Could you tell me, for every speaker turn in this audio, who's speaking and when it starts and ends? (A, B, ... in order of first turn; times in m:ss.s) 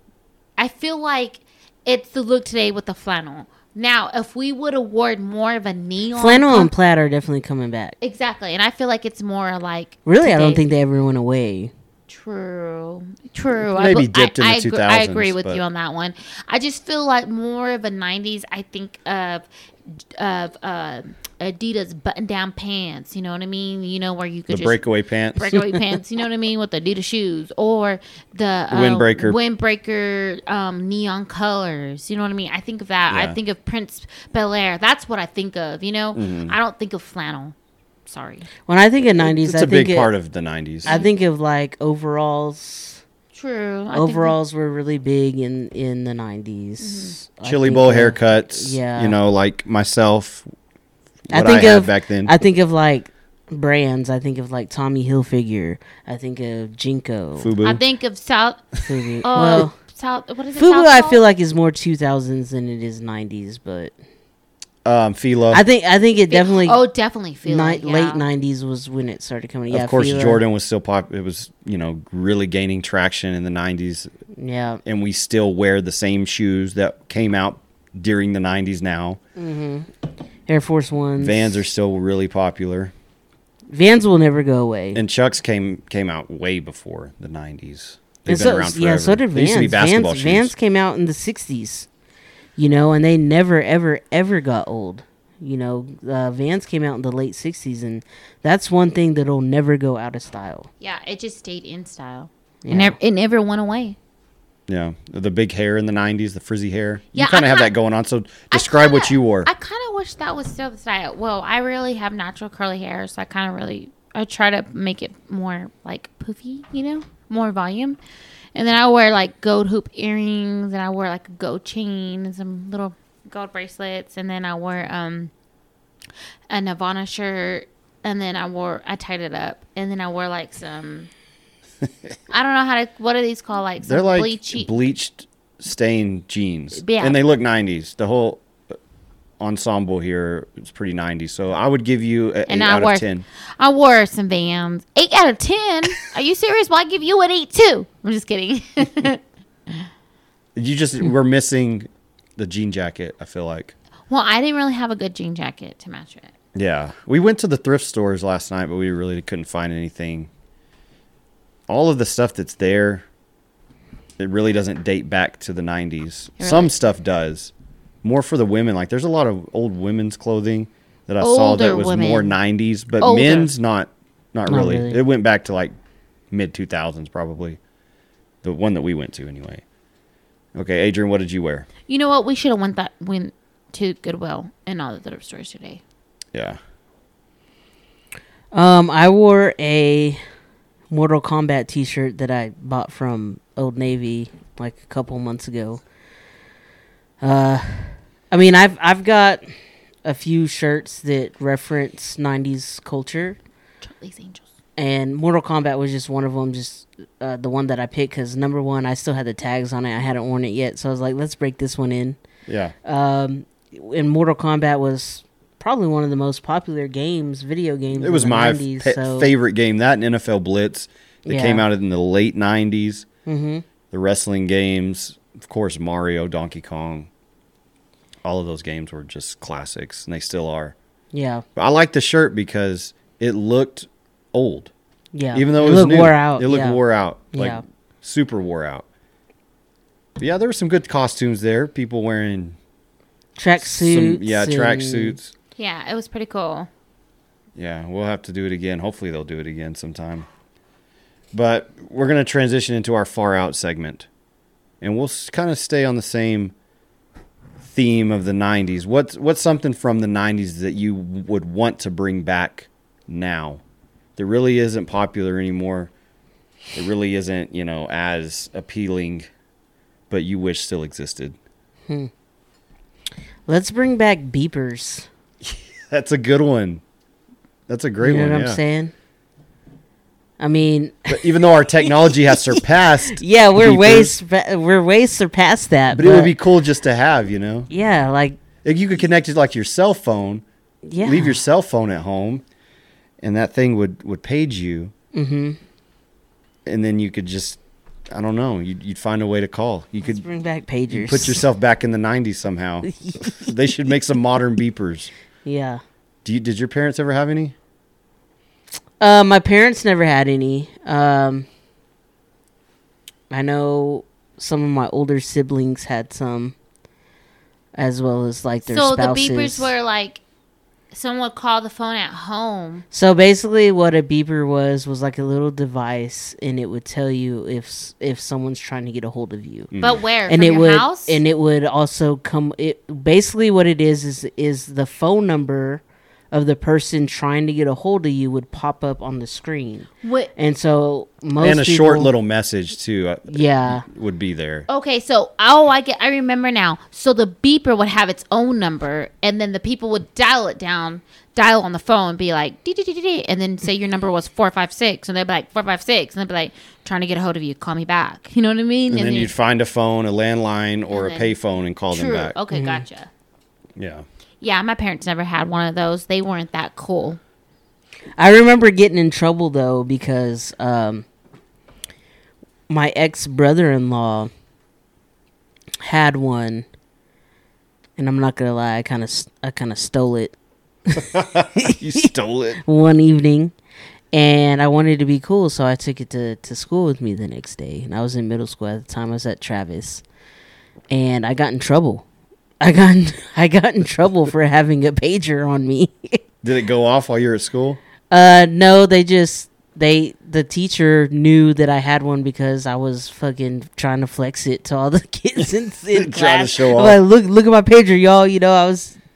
0:00.6-0:06.7 A
0:06.2-0:08.0 B
0:08.0-0:10.6 A
0:10.1-0:11.7 B
0:12.1-0:37.6 A
0:13.7-0:15.6 C
0:24.5-0:25.6 C
0:28.7-0:29.4 C
0:33.1-0:33.4 C
0:36.2-0:36.6 C
0:38.1-0:38.5 A
0:38.7-0:40.1 B
0:39.2-0:40.9 C
0:40.8-0:43.0 B
0:40.9-0:41.1 A
0:43.3-0:44.4 A
0:43.9-0:49.2 B
0:46.8-0:47.2 A
0:47.4-0:50.5 C
0:51.3-0:52.3 C
0:51.3-0:57.6 B
0:57.4-0:57.8 C
0:57.6-1:01.2 A
0:58.8-0:59.8 B
1:00.6-1:03.9 B
1:04.8-1:05.6 C
1:05.5-1:06.8 B
1:06.3-1:08.2 A
1:07.5-1:10.4 B
1:09.7-1:14.1 C
1:14.4-1:14.8 B
1:14.8-1:19.2 C
1:19.4-1:19.9 B
1:20.5-1:21.6 B
1:21.2-1:22.9 C
1:23.7-1:25.0 B
1:25.0-1:30.5 C
1:28.3-1:31.9 B
1:32.6-1:40.7 B
1:40.8-1:44.0 A
1:42.6-1:43.0 B
1:44.7-1:49.5 C
1:47.2-1:47.7 A
1:48.5-1:58.0 A
1:58.6-2:05.3 A
2:06.5-2:11.1 A
2:12.3-2:14.7 A
2:13.8-2:18.8 C
2:16.8-2:17.2 A
2:19.4-2:23.2 C
2:22.5-2:23.1 A
2:23.6-2:29.9 A
2:30.6-2:33.7 C
2:34.1-2:36.3 A
2:36.5-2:40.3 C
2:41.7-2:43.0 C
2:44.2-2:47.5 C
2:46.4-2:46.7 A
2:48.0-2:55.7 C
2:51.2-2:52.4 A
2:53.0-2:53.5 A
2:54.5-2:55.0 B
2:56.3-2:57.6 C
2:58.4-2:59.6 C
3:00.6-3:01.7 C
3:01.9-3:05.8 A
3:06.3-3:06.6 C
3:08.5-3:10.2 B
3:10.9-3:15.8 B
3:17.2-3:23.4 B
3:23.8-3:24.4 A
3:24.8-3:32.2 B
3:32.5-3:32.7 C
3:32.8-3:39.3 B
3:38.0-3:43.1 C
3:41.3-3:41.6 B
3:43.3-3:43.6 B
3:43.9-3:47.1 C
3:48.2-3:50.8 C
3:51.1-3:51.4 B
3:51.6-3:54.7 C
3:55.1-3:56.8 B
3:55.3-3:58.9 C
3:57.3-3:57.6 B
4:00.2-4:02.6 C
4:03.4-4:05.2 B
4:03.6-4:05.3 C
4:05.6-4:06.7 A
4:07.6-4:10.3 C
4:11.3-4:14.1 C
4:14.8-4:16.5 C
4:17.6-4:23.6 C
4:24.2-4:25.9 C
4:26.7-4:29.3 C
4:30.1-4:31.4 C
4:33.5-4:35.1 B
4:35.4-4:36.8 C
4:37.7-4:38.6 C
4:38.0-4:38.9 B
4:40.4-4:46.3 B
4:41.1-4:44.1 C
4:45.9-4:47.7 C
4:47.7-4:48.4 B
4:48.6-4:50.4 C
4:50.9-4:51.4 B
4:51.0-4:52.4 C
4:53.2-4:54.9 C
4:55.1-4:55.6 B
4:56.7-4:57.6 C
4:58.1-5:00.2 C
5:00.0-5:01.4 B
5:00.9-5:05.1 C
5:02.9-5:03.4 B
5:05.4-5:05.8 B
5:06.2-5:07.6 C
5:09.0-5:11.5 B
5:13.3-5:16.6 B
5:17.8-5:19.7 B
5:18.7-5:20.2 A
5:20.9-5:22.8 A
5:22.9-5:29.7 B
5:29.7-5:30.0 C
5:29.8-5:31.2 A
5:30.3-5:42.1 B
5:40.0-5:40.3 A
5:41.4-5:44.7 C
5:43.3-5:43.8 B
5:44.7-5:59.3 A
5:58.9-6:02.4 C
6:00.9-6:01.3 A
6:01.9-6:03.1 A
6:02.5-6:02.8 B
6:03.8-6:04.0 C
6:04.4-6:07.2 A
6:08.2-6:11.1 B
6:12.7-6:14.3 B
6:15.8-6:16.7 B
6:18.0-6:20.4 B
6:20.9-6:22.1 B
6:21.1-6:22.6 C
6:22.6-6:23.5 B
6:24.1-6:30.0 B
6:30.9-6:32.0 B
6:32.6-6:36.2 B
6:36.4-6:37.8 C
6:38.1-6:49.0 B
6:45.9-6:47.0 C
6:46.1-6:46.5 A